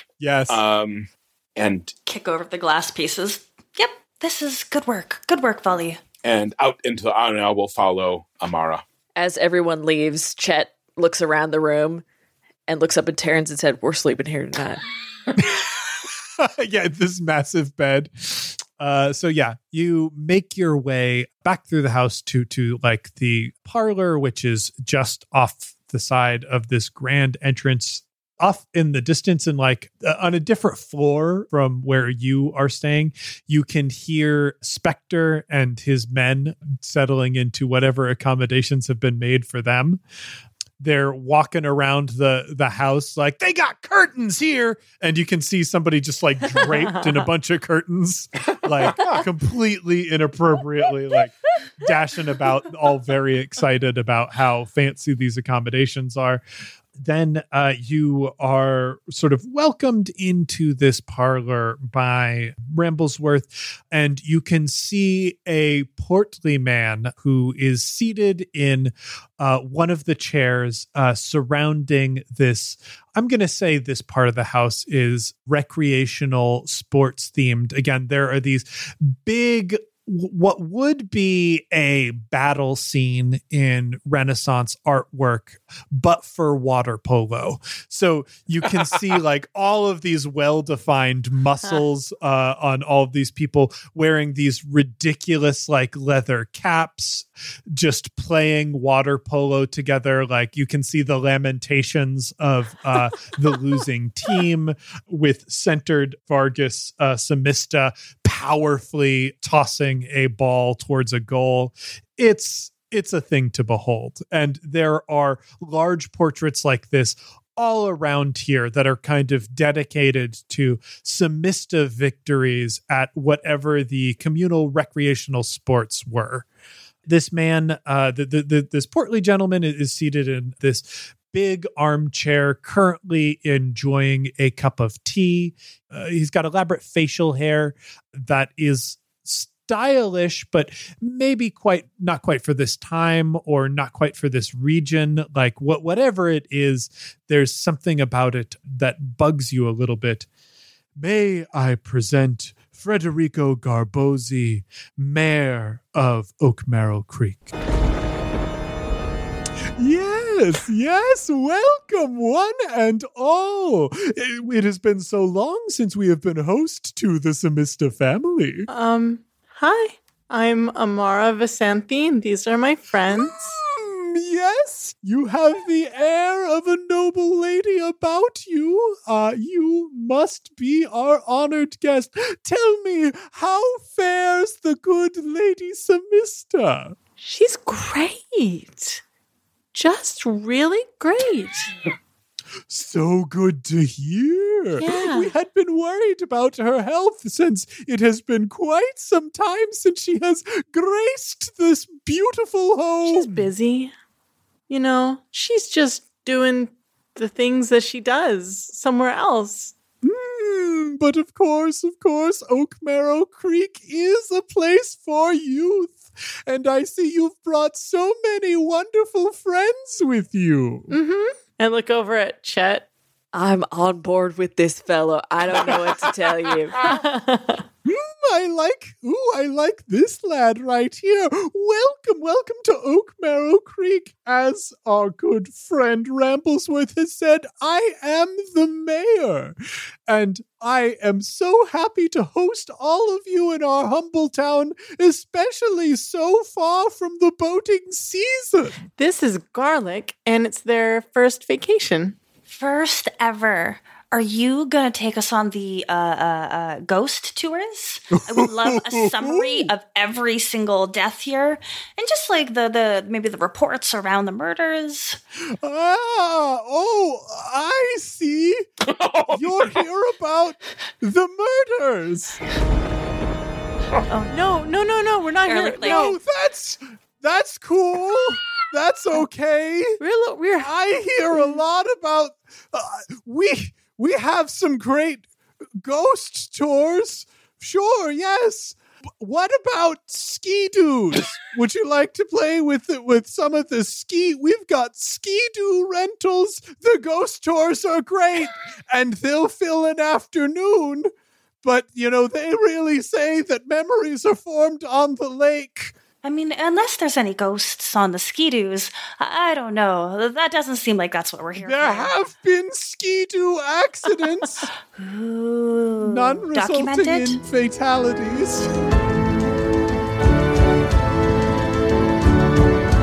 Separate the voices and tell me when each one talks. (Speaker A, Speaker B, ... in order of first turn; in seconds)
Speaker A: 0.2-0.6, 15.4-40.0, 40.8-56.4, 57.0-126.5, 127.0-150.3, 151.0-157.5, 159.8-168.7, 173.1-186.9, 192.7-203.4, 210.0-220.9, 227.8-248.8, 258.3-259.7, 265.6-268.6, 269.3-272.4, 275.8-280.0, 280.6-285.2, 285.8-301.1, 301.6-305.9, 311.6-314.7, 316.0-318.7
Speaker B: 0.5-1.9, 6.2-8.8, 268.8-269.8
Speaker C: 2.1-6.0, 252.5-265.2, 275.5-276.1, 306.2-312.1, 314.9-317.4
Speaker D: 9.2-12.0, 12.7-14.8, 223.3-226.8
Speaker E: 168.7-173.6, 187.2-189.0, 189.7-191.7, 194.8-195.3, 203.0-203.9, 204.7-209.7, 220.9-222.9, 226.8-227.6, 249.0-252.2, 274.3-276.2, 280.0-280.7